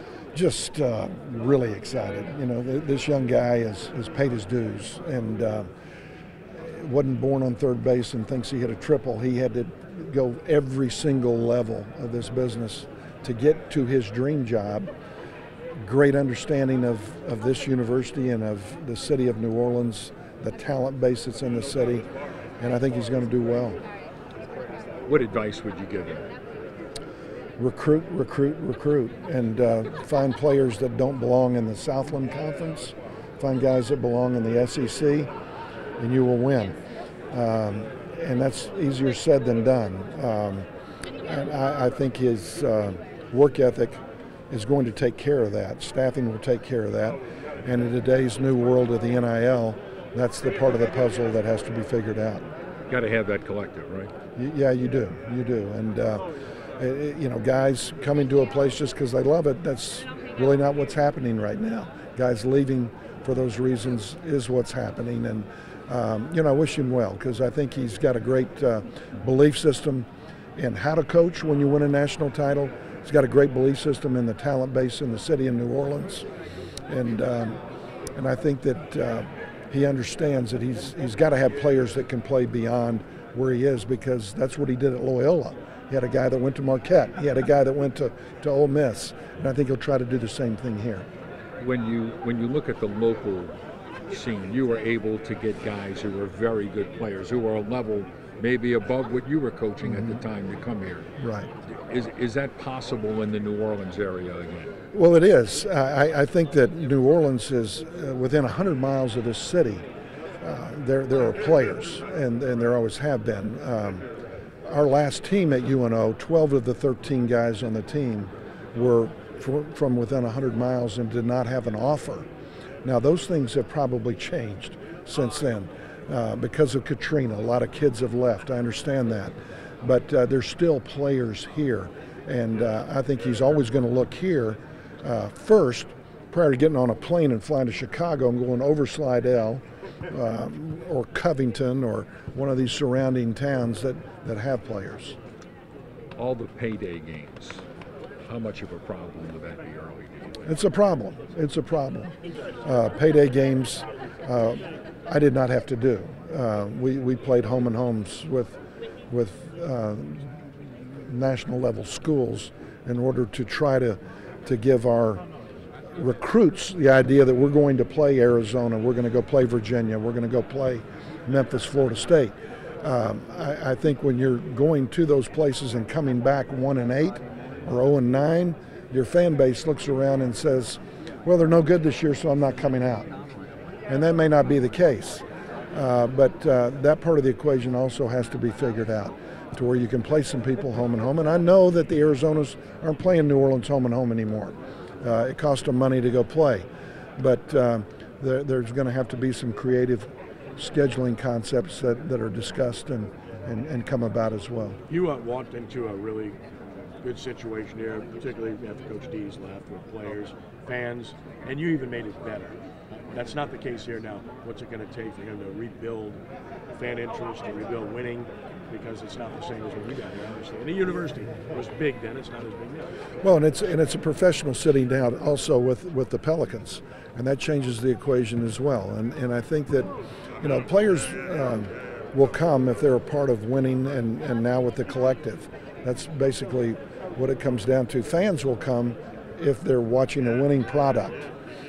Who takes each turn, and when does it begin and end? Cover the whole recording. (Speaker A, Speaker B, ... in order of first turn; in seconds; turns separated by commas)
Speaker A: 0.3-5.7, Speaker A: 6.6-14.9, Speaker A: 15.8-22.1, Speaker A: 22.6-23.8, Speaker B: 25.1-26.3, Speaker A: 27.6-35.3, Speaker A: 36.0-36.8, Speaker A: 37.3-40.7, Speaker A: 41.2-52.4, Speaker B: 52.9-54.1, Speaker A: 54.4-56.2, Speaker A: 56.8-76.2, Speaker A: 76.9-77.6, Speaker A: 78.1-91.0, Speaker B: 91.6-93.5, Speaker B: 94.1-101.1, Speaker A: 99.8-100.2, Speaker A: 101.2-101.5, Speaker B: 101.7-104.7, Speaker A: 104.9-109.8, Speaker A: 110.4-114.0, Speaker A: 114.7-122.3, Speaker A: 122.8-145.2, Speaker B: 146.2-147.6, Speaker B: 148.3-150.4, Speaker A: 150.4-158.6, Speaker A: 159.1-165.2, Speaker A: 165.9-183.1, Speaker A: 183.9-196.7, Speaker A: 197.2-204.8, Speaker C: 204.9-206.4, Speaker C: 207.0-212.6, Speaker C: 213.1-216.2, Speaker C: 216.7-223.0, Speaker A: 223.2-241.3